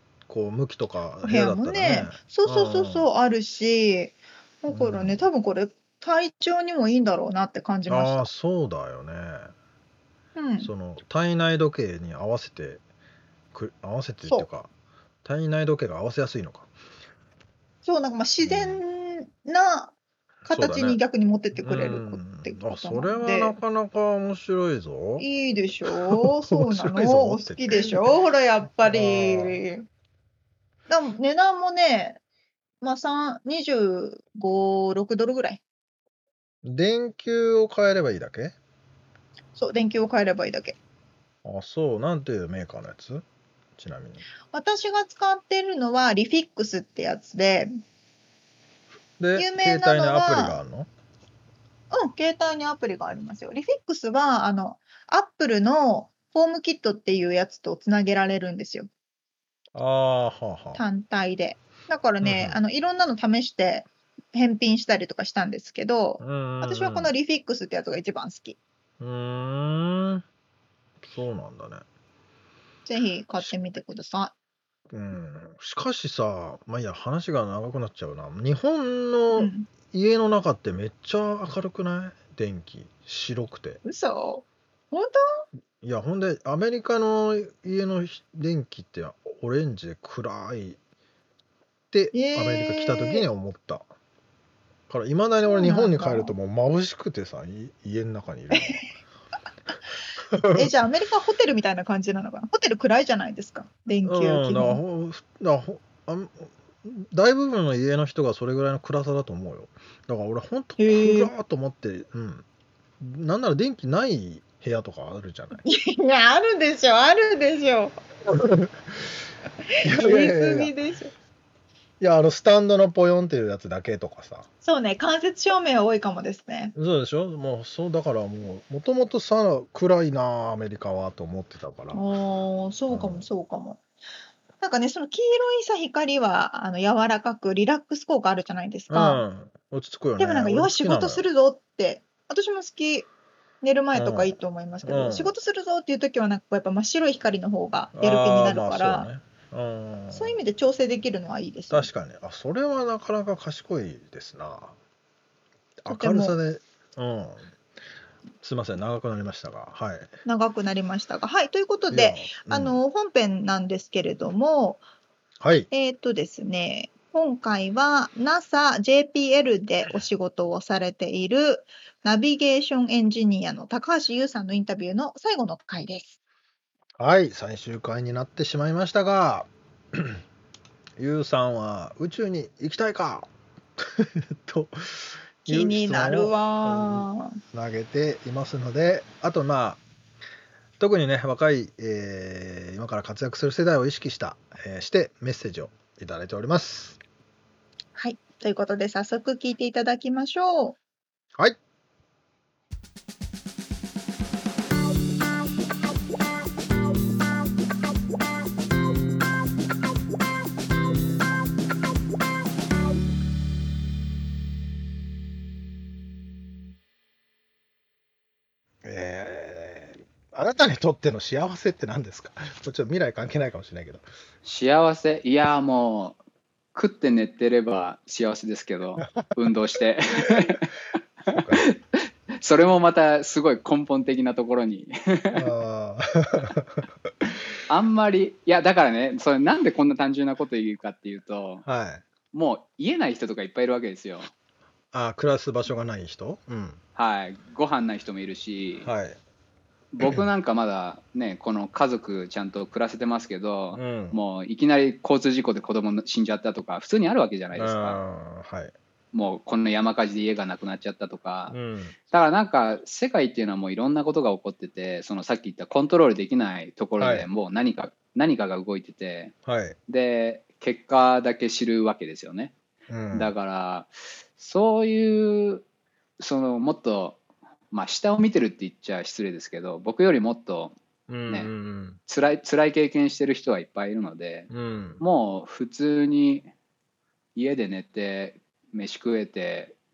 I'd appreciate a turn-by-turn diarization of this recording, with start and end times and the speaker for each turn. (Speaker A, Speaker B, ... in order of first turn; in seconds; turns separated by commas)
Speaker A: 0.3-3.0, Speaker B: 1.2-8.3, Speaker A: 4.7-5.2, Speaker A: 7.9-9.5, Speaker B: 10.3-10.7, Speaker A: 10.6-12.8, Speaker A: 13.5-14.7, Speaker A: 15.2-16.7, Speaker B: 17.8-19.9, Speaker A: 18.4-18.8, Speaker A: 20.4-21.0, Speaker B: 20.5-23.6, Speaker A: 21.6-25.2, Speaker B: 25.2-29.9, Speaker A: 25.9-28.1, Speaker A: 28.9-29.6, Speaker B: 30.9-32.2, Speaker B: 32.8-35.6, Speaker A: 36.6-38.5, Speaker B: 39.5-40.8, Speaker A: 41.4-43.2, Speaker A: 43.8-44.2, Speaker B: 44.5-47.7, Speaker A: 49.2-50.9, Speaker B: 49.4-50.6, Speaker B: 51.9-58.9, Speaker A: 59.7-60.8, Speaker B: 60.7-68.6, Speaker A: 62.2-62.6, Speaker A: 66.2-67.1, Speaker A: 69.0-70.2, Speaker A: 71.0-71.8, Speaker B: 72.8-74.3, Speaker A: 74.9-83.8, Speaker B: 79.3-79.7, Speaker B: 83.8-85.4, Speaker A: 85.8-90.8, Speaker A: 91.9-93.8, Speaker B: 92.1-93.2, Speaker A: 94.9-98.8, Speaker B: 95.4-96.3, Speaker B: 98.5-98.8, Speaker A: 100.3-100.7, Speaker B: 100.5-104.8, Speaker A: 104.0-112.4, Speaker B: 110.8-111.3, Speaker A: 113.0-115.6, Speaker B: 115.6-118.0, Speaker A: 118.3-119.1, Speaker B: 119.8-121.1, Speaker A: 119.8-120.7, Speaker A: 122.0-124.5, Speaker B: 124.6-126.7, Speaker A: 126.7-132.0, Speaker B: 131.9-133.8, Speaker A: 132.9-133.2, Speaker B: 134.6-139.2, Speaker A: 138.9-141.2, Speaker B: 140.2-143.1, Speaker B: 143.6-149.1, Speaker A: 143.9-145.3, Speaker A: 147.9-150.4, Speaker B: 150.1-151.9, Speaker A: 151.7-154.8, Speaker A: 155.8-157.5, Speaker B: 155.9-156.3, Speaker A: 158.4-160.1, Speaker B: 160.2-164.8, Speaker A: 161.9-162.8, Speaker A: 165.4-165.7, Speaker B: 165.7-176.2, Speaker A: 177.0-180.2, Speaker A: 181.0-189.8, Speaker B: 185.5-187.4, Speaker A: 190.8-197.0, Speaker B: 197.9-200.8, Speaker A: 218.8-224.0, Speaker C: 224.4-226.2, Speaker C: 226.7-230.7, Speaker A: 229.0-229.3, Speaker A: 231.3-231.7, Speaker C: 231.3-235.4, Speaker A: 235.3-236.8, Speaker C: 237.7-241.6, Speaker A: 241.7-242.0, Speaker C: 242.3-244.3, Speaker A: 244.9-246.8, Speaker C: 246.9-248.9, Speaker A: 248.8-249.2, Speaker C: 249.9-258.0, Speaker A: 253.7-254.2, Speaker A: 257.5-258.7, Speaker C: 259.1-261.5, Speaker A: 261.5-261.9, Speaker C: 262.1-269.3, Speaker A: 267.0-267.3, Speaker A: 269.4-269.8, Speaker C: 269.9-272.5, Speaker A: 272.9-273.3, Speaker C: 273.1-275.6, Speaker C: 276.2-277.2, Speaker C: 277.7-280.8, Speaker A: 281.1-282.0, Speaker C: 282.1-286.5, Speaker A: 284.5-285.0, Speaker C: 287.4-289.7